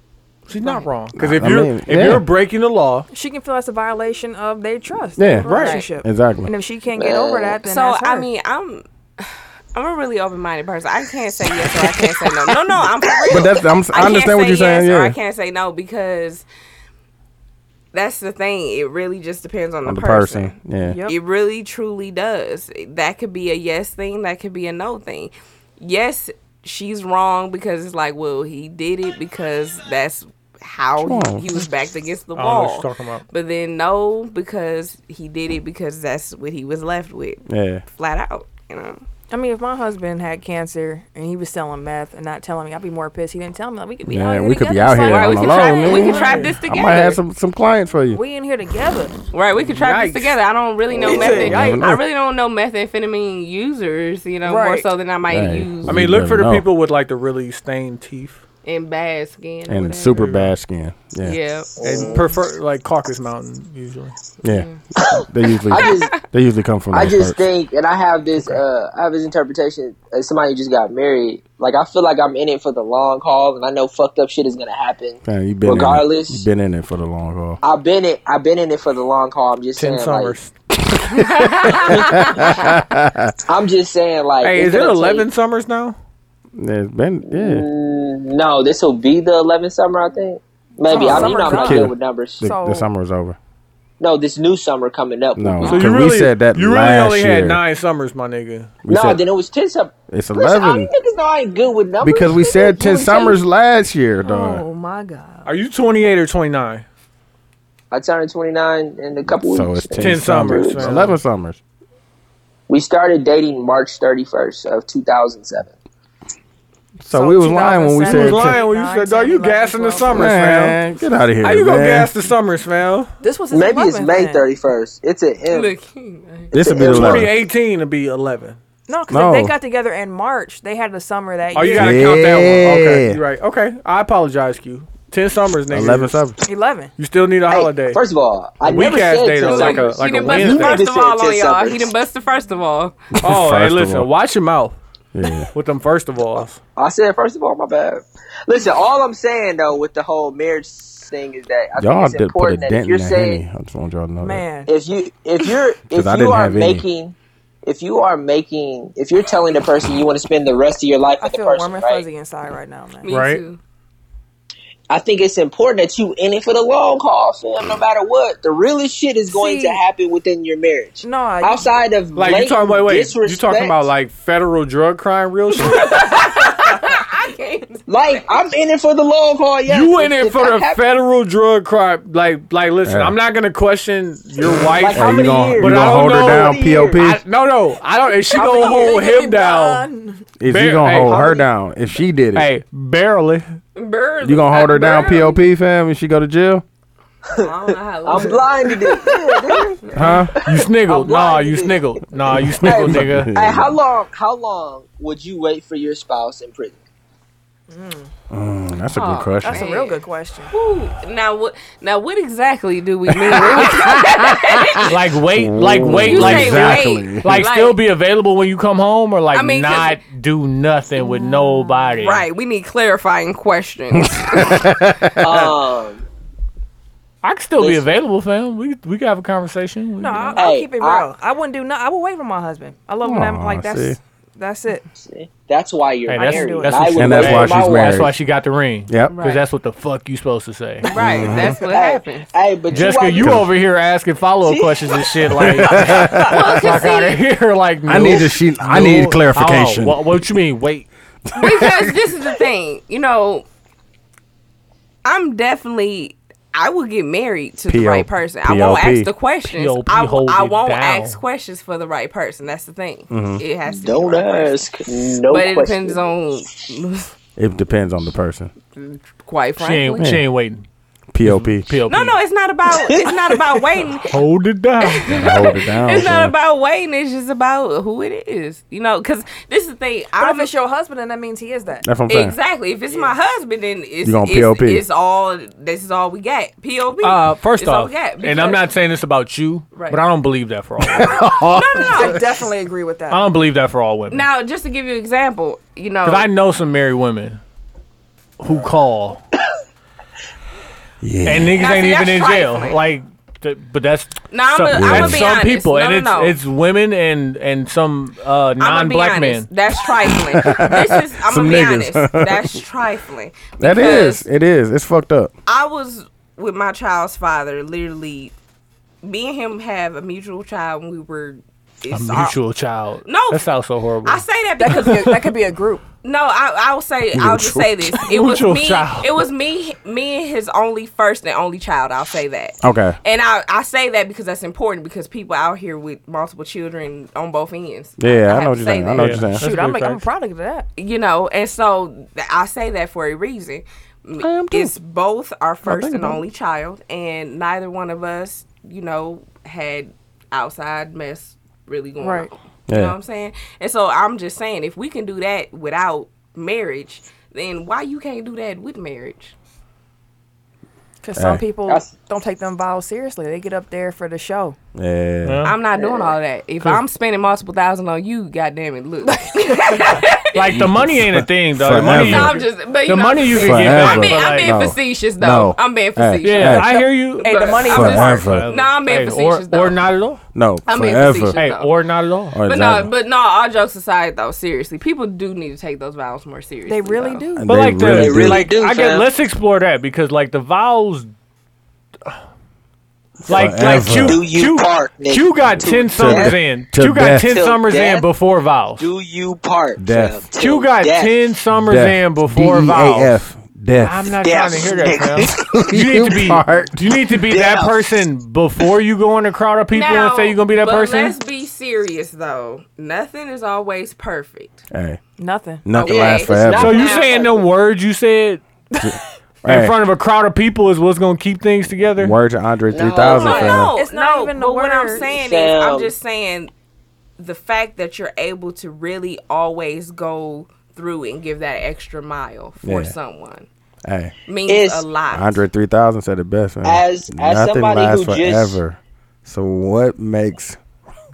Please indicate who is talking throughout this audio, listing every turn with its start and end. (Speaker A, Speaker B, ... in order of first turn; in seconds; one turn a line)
Speaker A: 0.5-3.1
Speaker B: 1.2-2.3
Speaker C: 3.1-8.3
Speaker B: 5.2-6.5
Speaker A: 5.4-5.8
Speaker D: 5.5-5.9
Speaker E: 7.0-7.6
Speaker D: 7.6-16.5
Speaker E: 11.5-13.5
Speaker B: 13.3-15.2
Speaker D: 17.9-39.0
Speaker B: 19.9-21.0
Speaker C: 20.8-21.2
Speaker B: 31.0-31.5
Speaker A: 32.4-33.2
Speaker B: 37.5-37.8
Speaker C: 39.3-46.5
Speaker B: 44.1-48.2
Speaker D: 45.0-47.2
Speaker A: 46.0-46.5
Speaker C: 48.1-49.2
Speaker D: 49.3-56.0
Speaker A: 49.6-50.4
Speaker C: 51.0-51.9
Speaker B: 51.4-52.0
Speaker C: 54.4-54.9
Speaker B: 55.3-56.7
Speaker A: 55.9-58.4
Speaker D: 58.6-60.3
Speaker B: 59.7-61.4
Speaker A: 60.2-60.5
Speaker D: 61.2-62.1
Speaker E: 61.8-62.2
Speaker A: 61.8-64.2
Speaker B: 64.4-67.5
Speaker E: 65.1-66.1
Speaker D: 65.9-66.2
Speaker E: 66.9-76.5
Speaker B: 75.2-77.6
Speaker E: 77.6-80.3
Speaker A: 79.8-80.5
Speaker B: 80.9-83.3
Speaker D: 81.1-82.6
Speaker E: 81.9-82.4
Speaker E: 83.5-85.3
Speaker A: 84.4-86.0
Speaker B: 86.6-87.7
Speaker E: 87.3-92.5
Speaker C: 90.9-92.9
Speaker B: 91.0-93.4
Speaker E: 94.0-95.9
Speaker B: 95.4-97.6
Speaker A: 95.6-98.7
Speaker B: 98.8-99.2
Speaker E: 98.9-103.4
Speaker B: 100.1-100.9
Speaker B: 102.0-104.6
Speaker C: 104.2-105.5
Speaker A: 105.5-106.9
Speaker E: 107.9-110.9
Speaker B: 109.3-111.6
Speaker A: 110.0-111.2
Speaker E: 112.7-115.7
Speaker B: 117.0-118.6
Speaker C: 117.1-120.4
Speaker A: 118.0-120.8
Speaker B: 120.1-122.1
Speaker A: 121.4-123.1
Speaker C: 123.2-124.4
Speaker E: 123.5-125.8
Speaker D: 125.5-126.5
Speaker E: 126.5-127.3
Speaker B: 126.5-127.3
Speaker A: 126.8-128.6
Speaker C: 128.9-132.2
Speaker B: 129.1-129.6
Speaker A: 131.5-136.2
Speaker B: 131.7-133.2
Speaker B: 135.7-136.4
Speaker C: 136.4-136.9
Speaker A: 137.0-138.0
Speaker E: 137.5-141.9
Speaker A: 138.6-140.8
Speaker D: 139.4-143.0
Speaker B: 143.1-144.1
Speaker A: 143.2-144.8
Speaker B: 145.1-145.5
Speaker A: 145.5-146.6
Speaker E: 146.8-153.4
Speaker B: 151.8-154.4
Speaker C: 154.2-154.7
Speaker E: 154.7-162.1
Speaker B: 155.9-156.9
Speaker C: 161.2-163.1
Speaker D: 163.0-163.6
Speaker A: 163.1-163.4
Speaker E: 164.9-173.9
Speaker C: 169.3-169.8
Speaker C: 171.0-171.7
Speaker A: 172.2-176.0
Speaker D: 175.6-178.3
Speaker E: 177.9-180.8
Speaker A: 179.7-189.9
Speaker B: 182.8-183.2
Speaker E: 184.8-187.0
Speaker B: 184.9-187.2
Speaker C: 188.3-190.2
Speaker E: 188.4-189.0
Speaker B: 190.4-192.5
Speaker A: 190.5-191.4
Speaker A: 192.3-193.6
Speaker D: 193.8-195.4
Speaker B: 194.2-196.6
Speaker E: 197.3-199.8
Speaker D: 197.4-199.1
Speaker D: 199.8-200.2
Speaker B: 199.9-200.3
Speaker A: 200.4-203.3
Speaker E: 200.5-202.0
Speaker B: 202.4-203.8
Speaker E: 202.6-206.8
Speaker C: 207.7-208.1
Speaker B: 208.3-209.6
Speaker D: 208.9-215.0
Speaker C: 209.4-210.5
Speaker A: 214.8-222.2
Speaker B: 215.3-217.4
Speaker D: 216.0-217.8
Speaker D: 219.3-220.0
Speaker D: 221.0-224.7
Speaker B: 223.9-225.5
Speaker E: 225.2-226.1
Speaker A: 227.2-230.4
Speaker E: 227.6-227.8
Speaker C: 230.0-234.9
Speaker E: 230.4-231.1
Speaker B: 233.0-234.0
Speaker E: 235.0-238.1
Speaker A: 236.1-240.9
Speaker C: 236.2-236.9
Speaker B: 237.0-238.1
Speaker B: 238.9-239.2
Speaker D: 239.1-239.4
Speaker D: 240.9-242.3
Speaker B: 241.0-241.6
Speaker C: 241.1-241.5
Speaker E: 241.2-243.4
Speaker A: 242.7-250.9
Speaker B: 243.2-243.5
Speaker E: 244.4-245.8
Speaker B: 245.4-246.6
Speaker D: 246.2-247.2
Speaker B: 247.9-250.0
Speaker B: 251.3-252.1
Speaker D: 251.4-253.5
Speaker D: 255.0-264.6
Speaker B: 257.7-259.1
Speaker A: 259.5-261.2
Speaker B: 263.1-263.4
Speaker E: 263.7-266.0
Speaker D: 265.3-267.1
Speaker B: 267.4-268.5
Speaker D: 268.8-270.1
Speaker A: 269.6-270.6
Speaker B: 270.0-270.2
Speaker B: 271.1-271.7
Speaker A: 271.2-272.2
Speaker D: 271.9-274.1
Speaker E: 272.7-273.8
Speaker A: 274.1-275.4
Speaker D: 274.8-280.5
Speaker B: 275.1-276.4
Speaker C: 280.2-281.9
Speaker B: 281.8-282.4
Speaker D: 282.1-288.7
Speaker B: 284.0-284.8
Speaker A: 287.0-291.9
Speaker D: 289.7-290.0
Speaker B: 290.9-291.5
Speaker D: 291.3-292.3
Speaker C: 291.9-293.3
Speaker A: 293.1-294.3
Speaker D: 294.1-296.3
Speaker A: 296.0-297.4
Speaker A: 298.4-299.2
Speaker B: 301.0-301.6
Speaker A: 301.2-309.5
Speaker D: 301.6-302.8
Speaker D: 304.3-306.4
Speaker B: 304.7-305.3
Speaker D: 308.6-314.3
Speaker B: 310.3-312.6
Speaker B: 313.6-315.3
Speaker D: 315.5-318.3
Speaker D: 319.0-322.4
Speaker A: 321.9-324.9
Speaker D: 323.1-323.5
Speaker D: 324.0-325.3
Speaker C: 324.6-325.8
Speaker D: 326.0-339.3
Speaker B: 327.1-328.0
Speaker A: 328.1-329.1
Speaker B: 332.6-333.0
Speaker B: 338.0-339.4
Speaker A: 339.0-340.0
Speaker C: 339.4-340.7
Speaker D: 340.8-359.4
Speaker B: 344.2-344.8
Speaker B: 345.6-346.2
Speaker C: 352.0-352.3
Speaker B: 352.7-353.0
Speaker C: 361.0-364.6
Speaker B: 361.1-361.4
Speaker B: 364.8-365.4
Speaker A: 365.2-365.6
Speaker D: 365.4-370.6
Speaker E: 365.8-366.2
Speaker A: 370.3-374.6
Speaker B: 370.5-372.4
Speaker D: 371.8-379.8
Speaker B: 373.3-376.7
Speaker A: 376.2-380.2
Speaker C: 377.2-378.1
Speaker B: 377.7-378.5
Speaker B: 380.3-381.4
Speaker D: 380.7-381.7
Speaker A: 381.4-382.4
Speaker B: 382.3-382.9
Speaker D: 382.4-387.3
Speaker C: 386.7-387.5
Speaker B: 387.4-388.5
Speaker A: 387.5-391.1
Speaker E: 387.9-389.1
Speaker B: 393.2-394.2
Speaker A: 393.3-398.9
Speaker E: 394.0-396.4
Speaker B: 396.0-397.3
Speaker E: 397.3-398.1
Speaker E: 398.8-401.1
Speaker B: 399.8-400.2
Speaker A: 400.4-403.2
Speaker B: 401.5-404.1
Speaker A: 403.8-411.2
Speaker E: 404.2-405.5
Speaker B: 405.3-406.9
Speaker E: 407.3-407.9
Speaker D: 409.7-414.6
Speaker B: 414.7-415.0
Speaker C: 415.2-415.7
Speaker B: 415.6-416.8
Speaker D: 415.7-417.3
Speaker E: 415.8-417.4
Speaker A: 416.6-418.4
Speaker B: 418.8-419.8
Speaker A: 419.4-422.1
Speaker B: 422.0-423.7
Speaker E: 422.7-423.7
Speaker D: 423.1-426.5
Speaker C: 423.4-425.1
Speaker E: 425.1-425.9
Speaker D: 427.2-433.5
Speaker B: 432.6-432.9
Speaker B: 433.9-434.1
Speaker D: 434.3-435.4
Speaker E: 434.5-434.9
Speaker B: 435.1-440.6
Speaker E: 436.6-438.6